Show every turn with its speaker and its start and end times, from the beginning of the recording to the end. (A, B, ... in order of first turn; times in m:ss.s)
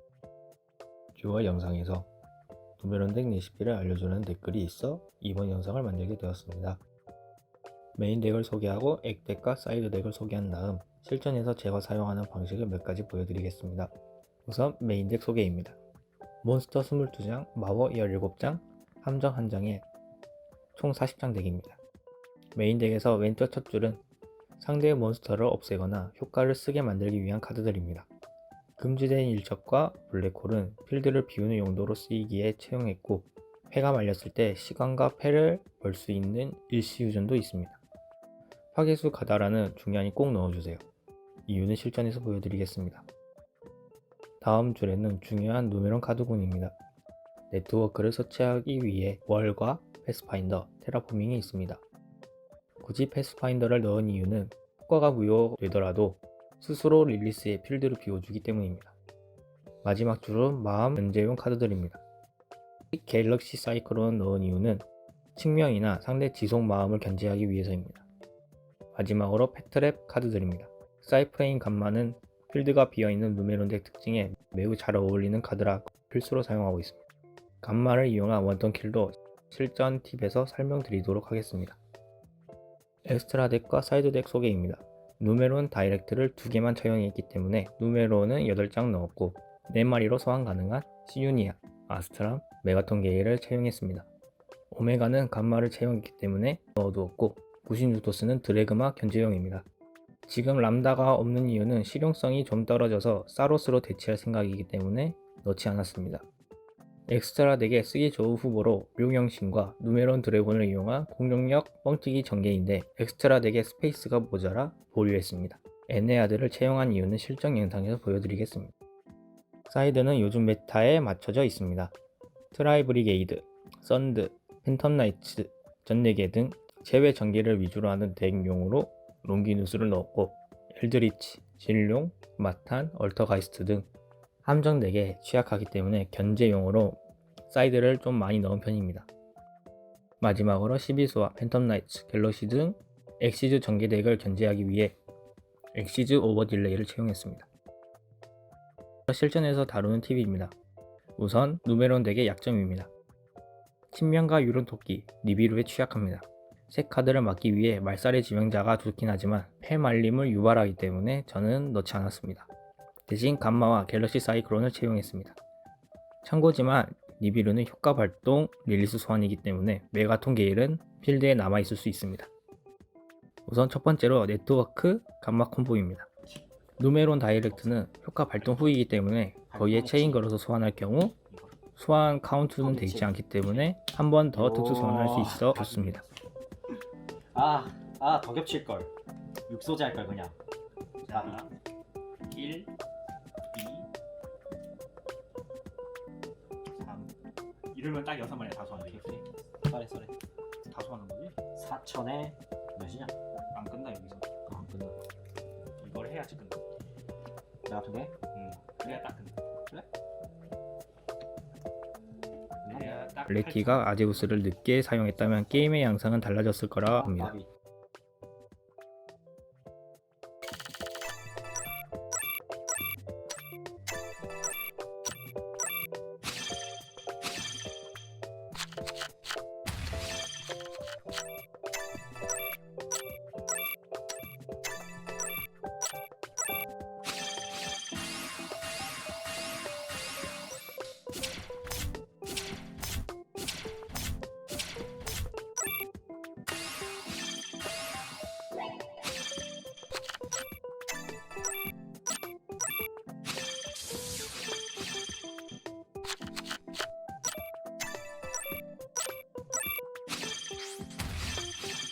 0:01.1-0:02.1 A
0:02.8-0:06.8 A
0:08.0-0:13.9 A
0:14.4-0:15.8 A
0:16.4-0:19.8 A
0:20.7-0:21.8 A
0:22.6-0:24.0 A
0:24.6-0:28.1 A
0:28.8-0:37.8 A
0:38.7-0:40.8 A
0:41.5-0:43.0 A
0:44.4-0:46.8 A
0:47.5-0:51.8 A
0:52.8-0:59.0 A
0:59.8-1:02.0 A
1:02.9-1:08.0 A
1:08.9-1:17.0 A
1:17.6-1:21.8 A
1:23.0-1:34.1 A
1:34.7-1:39.7 A
1:40.3-1:46.2 A
1:47.1-1:58.7 A
1:59.7-2:01.9 A
2:02.5-2:13.9 A
2:14.4-2:19.1 A
2:20.2-2:25.0 A
2:25.7-2:27.5 A
2:29.1-2:30.5 A
2:31.2-2:32.9 A
2:33.9-2:42.5 A
2:43.1-2:45.4 A
2:46.2-2:52.3 A
2:53.4-2:56.1 A
2:56.8-3:01.2 A
2:57.5-2:57.8 B
2:59.5-3:00.2 B
3:01.8-3:06.0 A
3:02.6-3:03.5 B
3:04.3-3:06.1 B
3:07.3-3:08.9 B
3:09.5-3:10.4 B
3:11.0-3:11.5 C
3:11.1-3:11.4 B
3:12.3-3:12.7 C
3:13.5-3:13.8 C
3:16.8-3:17.1 C
3:17.7-3:19.1 C
3:18.8-3:20.1 B
3:20.7-3:21.3 C
3:21.5-3:23.1 B
3:23.5-3:24.2 C
3:24.5-3:24.9 B
3:25.8-3:26.6 C
3:27.6-3:29.0 B
3:28.3-3:29.3 C
3:32.6-3:33.1 B
3:32.7-3:33.7 C
3:33.3-3:37.3 A
3:36.8-3:37.5 B